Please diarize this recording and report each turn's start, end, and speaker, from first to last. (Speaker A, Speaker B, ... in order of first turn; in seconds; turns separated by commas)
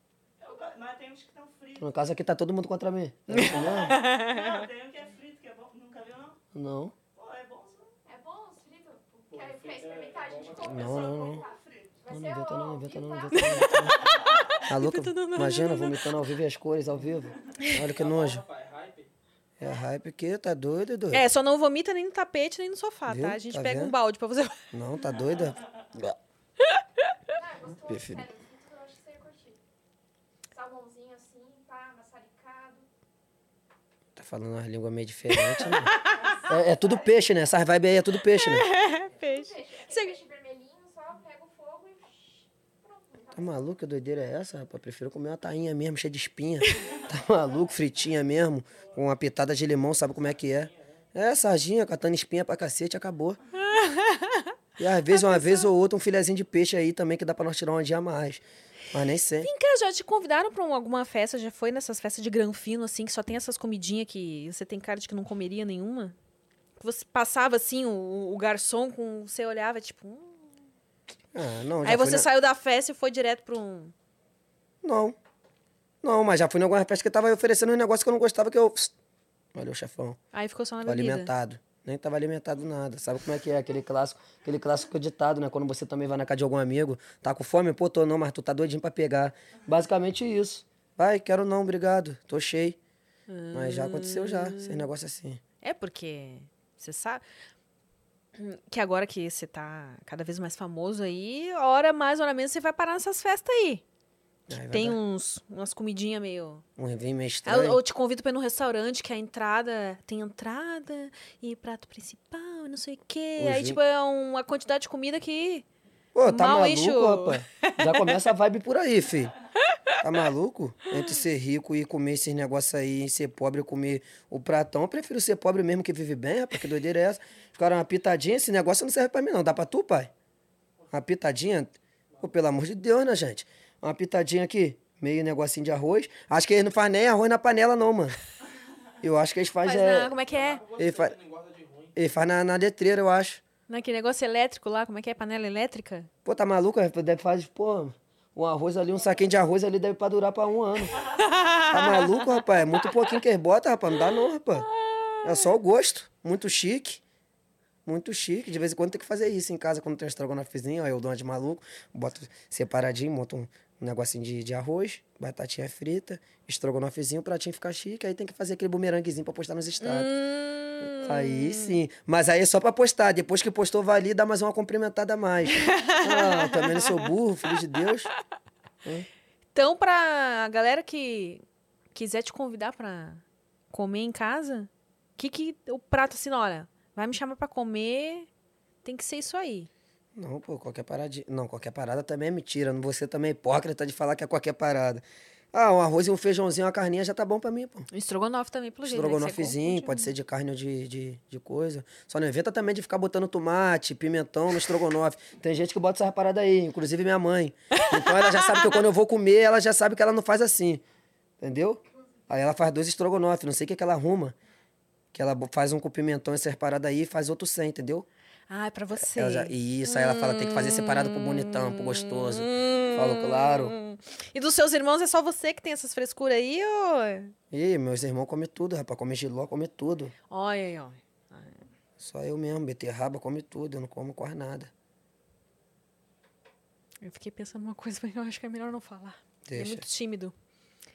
Speaker A: 0.4-1.9, Speaker B: 1.8-4.0, Speaker C: 3.3-4.6, Speaker A: 3.3-6.4, Speaker B: 6.5-6.9, Speaker A: 7.1-7.9, Speaker D: 8.1-14.2, Speaker E: 9.3-11.0, Speaker B: 10.6-11.4, Speaker A: 10.6-12.1, Speaker B: 12.1-14.0, Speaker C: 13.3-16.1, Speaker B: 14.7-18.4, Speaker E: 17.7-19.1, Speaker B: 19.6-21.2, Speaker C: 21.1-24.6, Speaker B: 23.1-23.9, Speaker B: 24.7-26.1, Speaker C: 26.6-27.1, Speaker D: 27.3-29.6, Speaker B: 27.9-28.2, Speaker D: 30.5-32.9, Speaker B: 34.1-38.7, Speaker C: 35.3-36.2, Speaker D: 35.8-36.8, Speaker C: 38.2-40.2, Speaker D: 39.0-43.8, Speaker B: 43.3-53.4, Speaker E: 50.1-51.0, Speaker C: 53.6-54.5, Speaker B: 54.8-59.5, Speaker C: 55.1-55.7, Speaker C: 59.4-66.2, Speaker C: 66.8-70.4, Speaker B: 71.3-72.3, Speaker C: 71.8-73.9, Speaker B: 74.8-75.2, Speaker B: 76.0-78.9, Speaker B: 79.5-80.2, Speaker C: 80.3-81.3, Speaker B: 80.8-92.8, Speaker C: 93.3-94.9, Speaker B: 93.5-95.4, Speaker C: 95.6-97.2, Speaker C: 98.3-103.8, Speaker B: 104.5-105.0, Speaker C: 104.7-106.6, Speaker B: 106.8-107.8, Speaker C: 107.4-115.7, Speaker B: 113.4-113.8, Speaker B: 116.1-119.3, Speaker C: 116.2-118.2, Speaker B: 120.0-130.1, Speaker B: 130.9-138.2, Speaker B: 139.0-140.1, Speaker C: 139.6-140.6, Speaker E: 140.2-141.9, Speaker B: 140.8-141.2, Speaker B: 141.9-143.4, Speaker C: 143.7-146.1, Speaker B: 146.2-150.9, Speaker C: 151.2-152.4, Speaker B: 151.7-154.7, Speaker B: 155.2-157.0, Speaker B: 157.8-170.2, Speaker C: 169.8-171.8, Speaker B: 170.8-178.1, Speaker C: 175.6-177.1, Speaker C: 179.5-181.4, Speaker C: 181.9-188.3, Speaker C: 188.8-189.7, Speaker B: 190.2-197.9, Speaker C: 197.9-200.1, Speaker B: 198.8-210.8, Speaker C: 207.7-208.7, Speaker B: 211.4-214.3, Speaker B: 215.1-218.1, Speaker C: 218.5-227.3, Speaker B: 218.9-223.7, Speaker B: 227.5-230.1, Speaker C: 230.3-231.6, Speaker B: 232.0-234.7, Speaker C: 237.0-240.3, Speaker B: 239.4-239.8